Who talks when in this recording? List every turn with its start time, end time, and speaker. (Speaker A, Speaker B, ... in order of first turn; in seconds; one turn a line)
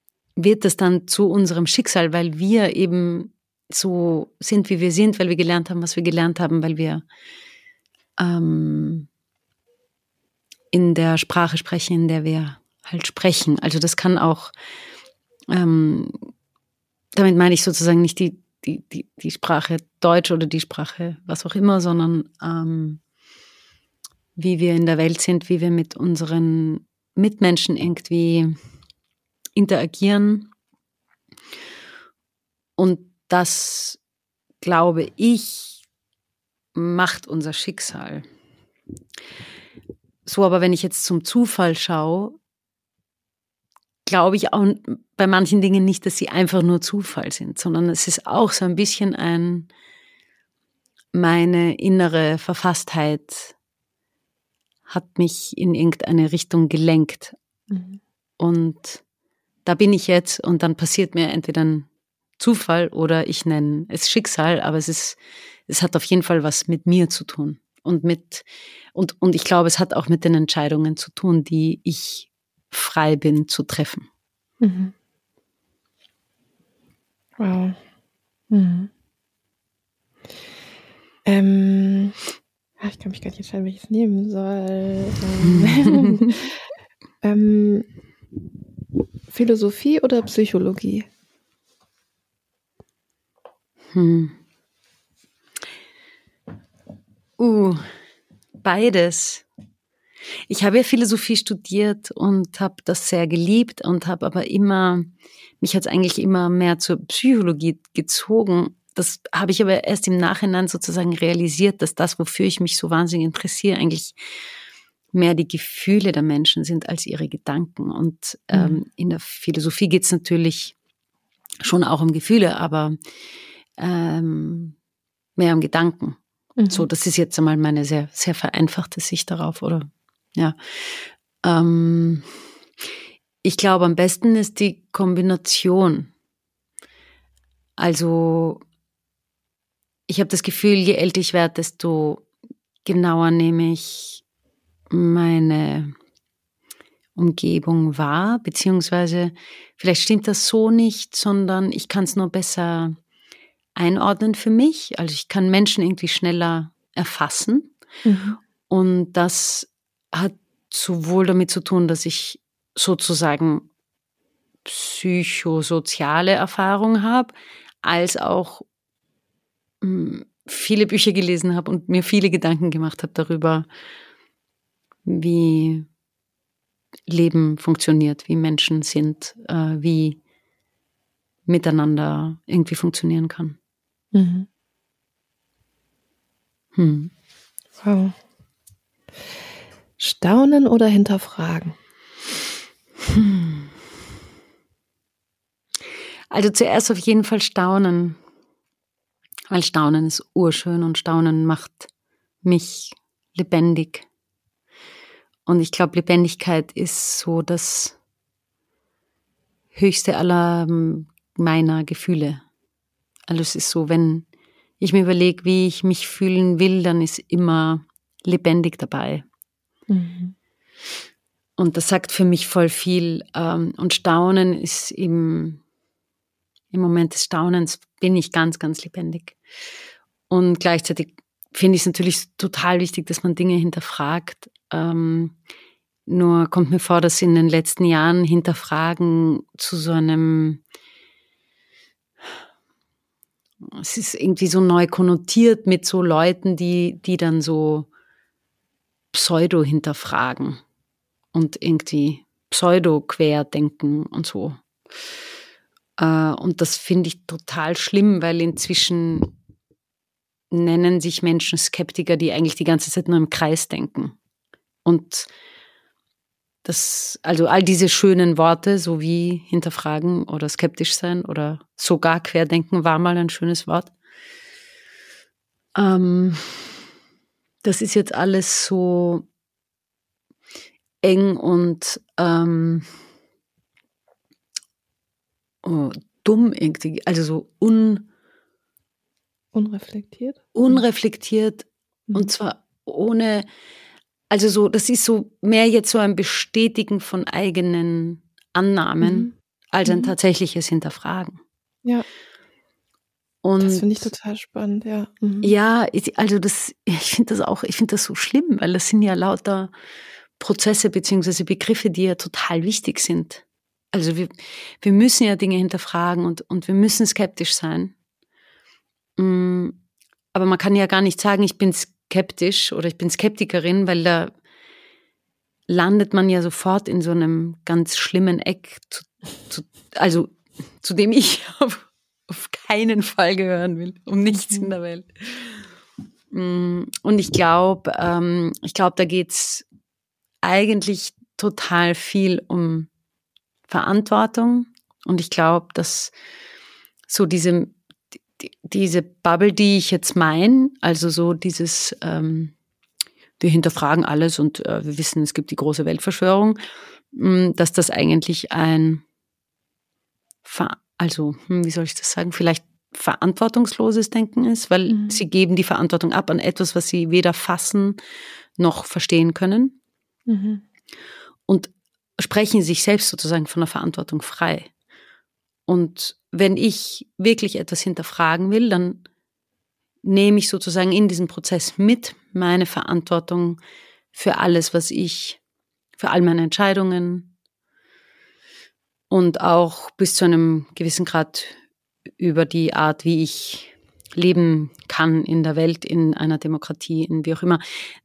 Speaker A: 0.4-7.0
Speaker A: 8.2-9.1
Speaker A: 10.7-14.5
Speaker A: 15.5-16.2
Speaker A: 17.1-23.0
Speaker A: 24.4-28.5
Speaker A: 29.6-30.5
Speaker A: 32.8-34.0
Speaker A: 34.6-35.8
Speaker A: 36.8-38.3
Speaker A: 40.2-42.4
Speaker A: 44.0-49.7
Speaker A: 51.1-53.5
Speaker A: 54.9-57.4
Speaker B: 57.7-58.0
Speaker A: 58.4-59.0
Speaker A: 59.6-74.1
Speaker B: 74.6-74.9
Speaker B: 77.4-77.8
Speaker B: 78.5-78.9
Speaker B: 81.2-82.2
Speaker B: 82.8-86.5
Speaker A: 85.5-86.3
Speaker B: 87.2-87.9
Speaker B: 89.3-91.1
Speaker A: 93.9-94.4
Speaker A: 97.4-97.8
Speaker A: 98.6-99.5
Speaker A: 100.5-114.2
Speaker A: 115.1-120.8
Speaker B: 118.5-118.8
Speaker A: 121.6-123.0
Speaker A: 123.8-124.8
Speaker A: 125.4-132.3
Speaker B: 126.6-126.9
Speaker A: 133.4-136.1
Speaker A: 137.8-138.6
Speaker A: 140.1-142.3
Speaker A: 142.8-144.2
Speaker A: 144.9-145.9
Speaker A: 147.2-152.9
Speaker A: 153.8-157.7
Speaker B: 158.1-158.4
Speaker A: 158.7-163.7
Speaker A: 164.7-168.7
Speaker A: 169.8-173.7
Speaker A: 175.1-175.9
Speaker A: 177.1-180.2
Speaker A: 181.5-183.6
Speaker B: 184.1-184.5
Speaker A: 186.8-187.1
Speaker B: 187.8-188.1
Speaker B: 190.0-191.7
Speaker A: 193.1-193.7
Speaker A: 196.3-198.2
Speaker A: 199.5-201.9
Speaker A: 202.4-204.1
Speaker A: 205.5-208.0
Speaker A: 209.7-212.4
Speaker A: 213.3-214.3
Speaker A: 214.8-219.2
Speaker B: 219.9-220.3
Speaker A: 221.6-225.6
Speaker A: 226.7-229.4
Speaker A: 230.3-235.4
Speaker A: 236.1-240.6
Speaker A: 243.6-247.9
Speaker A: 249.1-250.6
Speaker A: 251.3-254.6
Speaker A: 256.0-259.3
Speaker A: 260.5-264.1
Speaker A: 264.9-265.3
Speaker A: 266.6-273.9
Speaker A: 275.8-276.8
Speaker A: 277.6-279.2
Speaker A: 281.0-282.9
Speaker A: 285.6-288.1
Speaker B: 289.5-290.8
Speaker A: 290.5-293.5
Speaker A: 294.3-301.4
Speaker B: 299.0-299.3
Speaker B: 299.9-300.1
Speaker A: 303.4-304.1
Speaker B: 303.6-305.5
Speaker A: 305.4-309.7
Speaker A: 310.4-317.9
Speaker A: 319.2-319.8
Speaker A: 320.3-324.3
Speaker A: 325.7-335.7
Speaker B: 334.3-334.7
Speaker A: 336.3-339.6
Speaker A: 340.4-342.9
Speaker A: 343.7-346.1
Speaker A: 347.1-347.8
Speaker A: 348.4-352.5
Speaker A: 353.4-356.6
Speaker A: 357.1-359.0
Speaker A: 360.4-368.0
Speaker B: 364.9-365.2
Speaker A: 368.6-369.8
Speaker B: 370.3-370.6
Speaker A: 371.5-374.7
Speaker A: 375.7-379.0
Speaker A: 380.0-383.6
Speaker A: 384.1-385.4
Speaker A: 386.0-387.3
Speaker A: 389.1-391.6
Speaker A: 392.2-397.6